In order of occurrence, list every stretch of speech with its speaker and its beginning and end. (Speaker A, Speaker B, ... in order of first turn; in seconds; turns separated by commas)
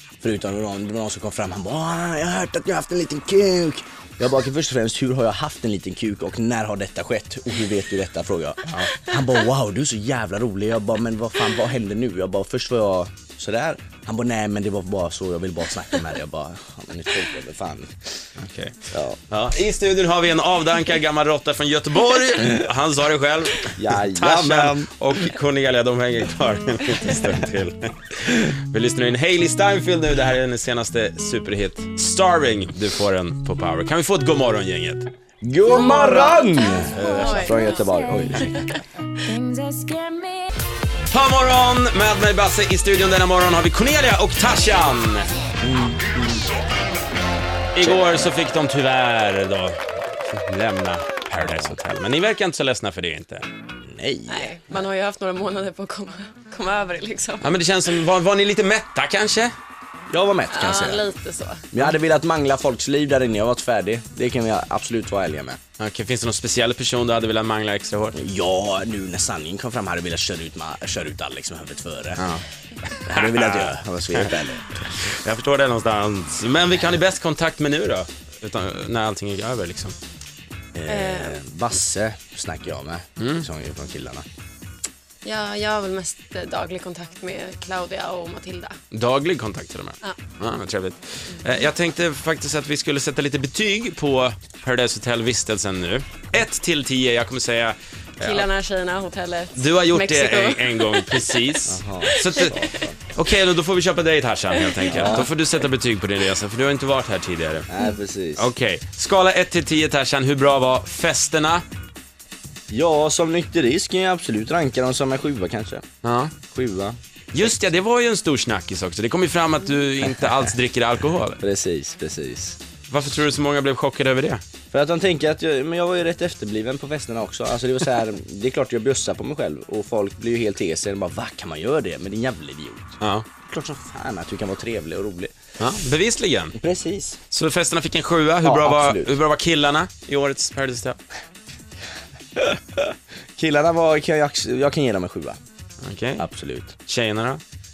Speaker A: 0.2-18.2, Speaker B: 8.7-8.9, Speaker B: 18.4-35.1, Speaker A: 18.9-19.2, Speaker A: 23.7-24.9, Speaker A: 35.4-38.8, Speaker C: 35.7-38.8, Speaker B: 37.0-37.5, Speaker D: 37.6-38.3, Speaker D: 39.2-40.5, Speaker B: 41.1-45.3, Speaker A: 45.6-46.5, Speaker B: 47.8-53.5, Speaker A: 47.8-48.3, Speaker A: 51.3-51.8, Speaker A: 53.8-54.6, Speaker C: 54.3-57.5, Speaker B: 57.4-59.5, Speaker A: 60.1-61.1, Speaker C: 60.5-61.6, Speaker A: 61.7-65.6, Speaker B: 65.8-68.2, Speaker A: 68.2-72.2, Speaker B: 72.2-80.0, Speaker A: 73.1-74.7, Speaker A: 80.8-84.2, Speaker C: 80.9-81.4, Speaker B: 83.2-83.5, Speaker C: 85.2-88.8, Speaker B: 88.9-98.5, Speaker C: 98.2-101.5, Speaker B: 99.6-107.7, Speaker A: 101.7-103.0, Speaker A: 104.9-105.3, Speaker A: 107.7-108.5, Speaker B: 108.4-111.6, Speaker A: 112.7-115.8, Speaker B: 116.0-116.3, Speaker A: 116.5-117.5, Speaker B: 117.3-121.4, Speaker A: 120.0-120.5, Speaker A: 121.4-122.6, Speaker B: 122.9-124.4, Speaker A: 124.7-135.3, Speaker B: 133.0-133.3, Speaker B: 135.6-136.6, Speaker A: 136.6-137.2, Speaker B: 137.3-141.0, Speaker A: 138.4-139.2, Speaker A: 142.4-145.4, Speaker B: 145.8-146.3, Speaker A: 146.2-146.7, Speaker B: 146.8-147.4